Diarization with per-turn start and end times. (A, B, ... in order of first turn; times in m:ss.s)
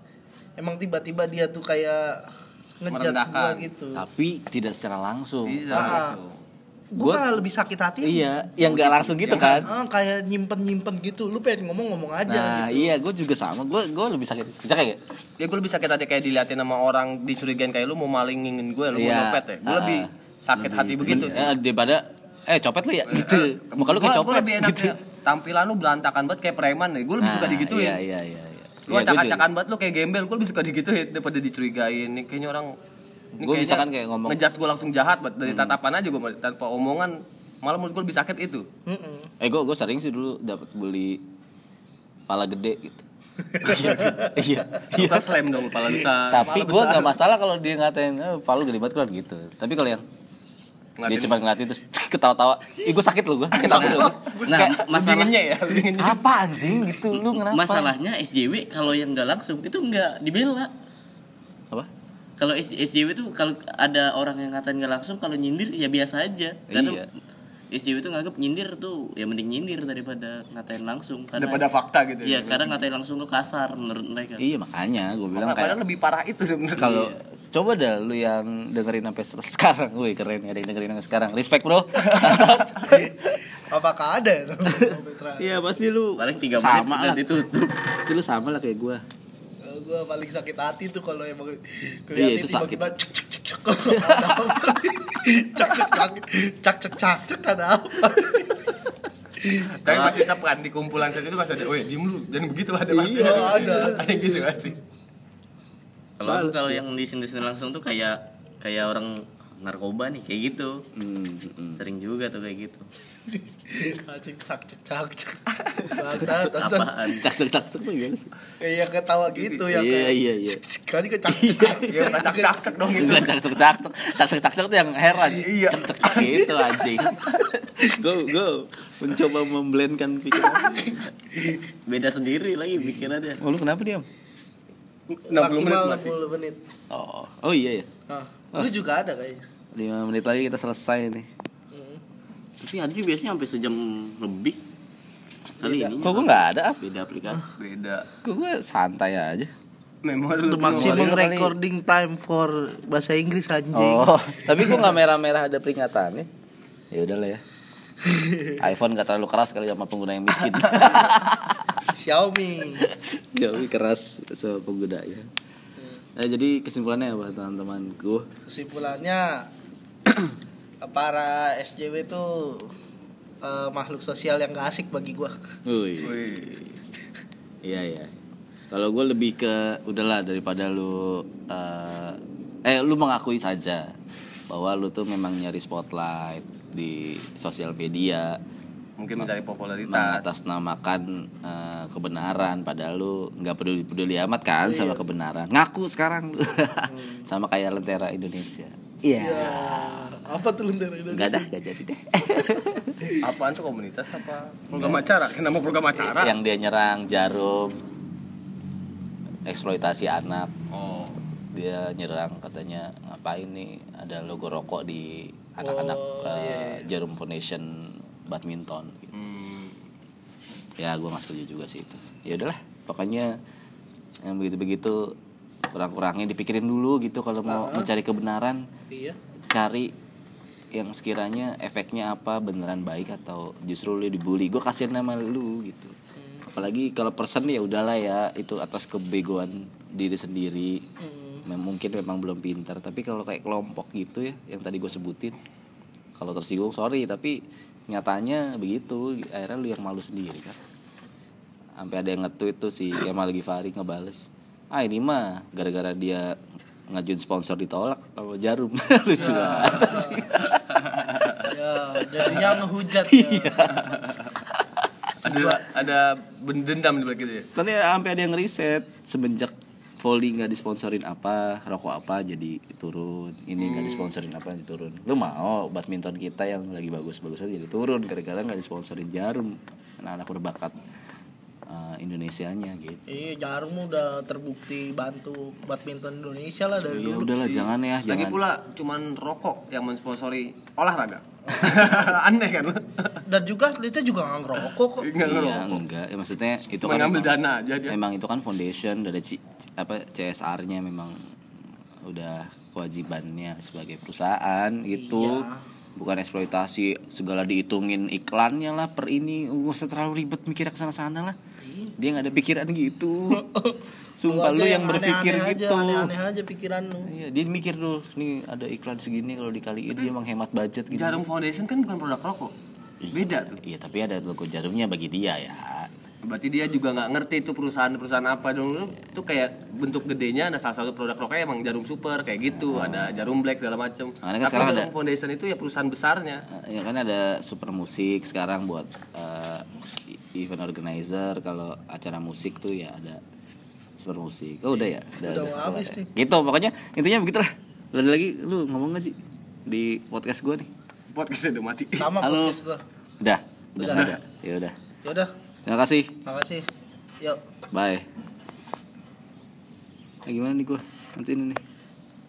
0:00.6-0:02.3 A
0:02.8-0:04.0 A
0:02.9-0:03.7 B
0:04.0-0:06.0 C
0:05.5-0:06.4 B
0:05.7-0:06.2 A
0:06.9-0:08.3 A
0:07.0-0:07.3 C
0:08.0-0:09.7 C
0:08.7-0:09.7 B
0:09.3-0:12.9 A
0:12.3-0:15.0 C
0:15.4-0:21.5 B
0:18.9-0:25.0 C
0:23.1-0:28.0 B
0:27.2-0:29.4 C
0:28.9-0:32.7 B
0:33.4-0:34.4 C
0:33.4-0:38.7 B
0:35.5-0:35.8 C
0:38.9-0:39.3 A
0:39.4-0:41.2 C
0:42.3-0:43.0 C
0:43.6-0:44.4 A
0:43.6-0:45.4 C
0:43.7-0:44.2 B
0:44.9-0:47.2 B
0:46.3-0:50.0 C
0:51.0-0:51.4 B
0:51.1-0:54.8 C
0:53.5-0:56.2 B
0:53.6-0:54.7 A
0:53.7-0:55.4 D
0:56.0-0:58.0 C
0:57.4-1:00.7 D
1:02.4-1:07.0 D
1:06.7-1:07.1 C
1:07.7-1:11.6 D
1:11.4-1:12.8 B
1:12.2-1:14.4 D
1:14.4-1:15.8 C
1:15.4-1:17.1 B
1:16.8-1:23.4 C
1:22.2-1:22.5 B
1:22.8-1:25.6 A
1:24.7-1:27.2 C
1:26.2-1:27.8 D
1:28.0-1:29.0 C
1:29.6-1:38.8 A
1:32.1-1:32.9 C
1:33.8-1:34.6 C
1:39.4-1:40.2 A
1:39.8-1:44.8 B
1:42.9-1:43.8 C
1:43.0-1:44.6 A
1:46.2-1:50.8 D
1:46.3-1:46.7 C
1:46.3-1:46.7 A
1:51.0-1:51.8 C
1:51.8-1:52.9 D
1:53.3-1:57.0 A
1:56.1-1:57.2 D
1:57.2-1:58.3 C
1:58.6-2:02.9 A
1:59.3-1:59.6 B
1:59.7-2:00.6 C
2:01.3-2:02.0 C
2:01.8-2:03.3 B
2:03.0-2:11.0 C
2:05.3-2:06.4 B
2:10.4-2:11.6 A
2:11.9-2:13.4 D
2:13.4-2:14.1 C
2:15.1-2:16.1 B
2:15.3-2:16.6 A
2:16.9-2:17.9 C
2:18.1-2:19.4 A
2:19.7-2:21.3 C
2:21.7-2:22.0 A
2:22.6-2:24.6 D
2:25.6-2:26.0 A
2:25.6-2:27.5 D
2:26.0-2:26.8 C
2:27.6-2:28.1 B
2:28.2-2:29.5 C
2:30.0-2:31.2 B
2:30.4-2:35.0 A
2:30.7-2:31.5 C
2:33.7-2:36.3 C
2:36.9-2:37.4 C
2:38.0-2:38.6 A
2:38.6-2:41.9 C
2:40.5-2:41.3 A
2:41.9-2:42.9 A
2:42.8-2:45.3 C
2:45.8-2:46.0 A
2:46.2-2:48.3 C
2:48.5-2:49.5 A
2:50.8-2:52.7 A
2:53.4-2:55.4 A
2:55.6-2:56.4 C
2:56.0-2:56.6 B
2:57.6-2:58.2 C
2:58.7-3:03.9 C
3:04.5-3:08.4 C
3:09.0-3:10.3 B
3:09.9-3:20.2 C
3:14.7-3:15.1 A
3:16.9-3:17.3 A
3:19.2-3:21.5 A
3:21.1-3:23.2 C
3:23.2-3:26.4 B
3:24.7-3:25.1 C
3:26.0-3:27.8 C
3:29.5-3:30.5 C
3:30.7-3:31.2 B
3:31.5-3:39.1 C
3:35.6-3:36.9 A
3:39.1-3:39.9 B
3:40.8-3:43.4 C
3:44.2-3:45.2 C
3:45.7-3:48.7 C
3:47.5-3:47.9 A
3:48.9-3:49.2 A
3:49.5-3:49.9 C
3:50.7-3:56.0 C
3:56.2-3:56.5 A
3:56.5-4:00.8 C
4:01.0-4:01.5 A
4:01.5-4:05.4 C
4:06.2-4:10.6 C
4:11.8-4:16.4 C
4:16.9-4:21.2 C
4:19.2-4:20.3 A
4:19.2-4:21.1 B
4:21.4-4:23.8 A
4:22.2-4:24.9 C
4:23.8-4:24.3 B
4:25.2-4:27.5 B
4:25.2-4:25.7 A
4:27.6-4:40.8 C
4:33.6-4:34.1 B
4:41.7-4:43.2 C
4:43.1-4:47.3 A
4:46.8-4:48.4 C
4:47.4-4:53.2 B
4:53.3-4:55.2 A
4:55.0-4:55.8 B
4:55.2-4:57.4 C
4:56.8-4:58.0 B
4:57.9-5:01.2 C
5:02.0-5:11.4 C
5:04.9-5:05.6 A
5:11.6-5:12.0 A
5:12.0-5:13.4 C
5:13.3-5:17.1 A
5:14.2-5:16.1 C
5:17.0-5:21.2 C
5:20.9-5:22.5 B
5:23.0-5:25.9 C
5:23.1-5:23.6 B
5:26.2-5:36.4 B
5:32.5-5:33.2 C
5:34.2-5:34.9 C
5:36.5-5:43.2 C
5:44.0-5:50.7 C
5:45.2-5:46.1 A
5:51.1-5:52.1 B
5:52.0-5:52.8 A
5:52.2-5:52.6 D
5:53.2-5:54.8 C
5:53.8-5:54.2 A
5:55.0-5:55.3 A
5:55.7-5:56.2 C
5:56.2-5:56.7 A
5:57.7-5:58.1 C
6:00.2-6:01.6 C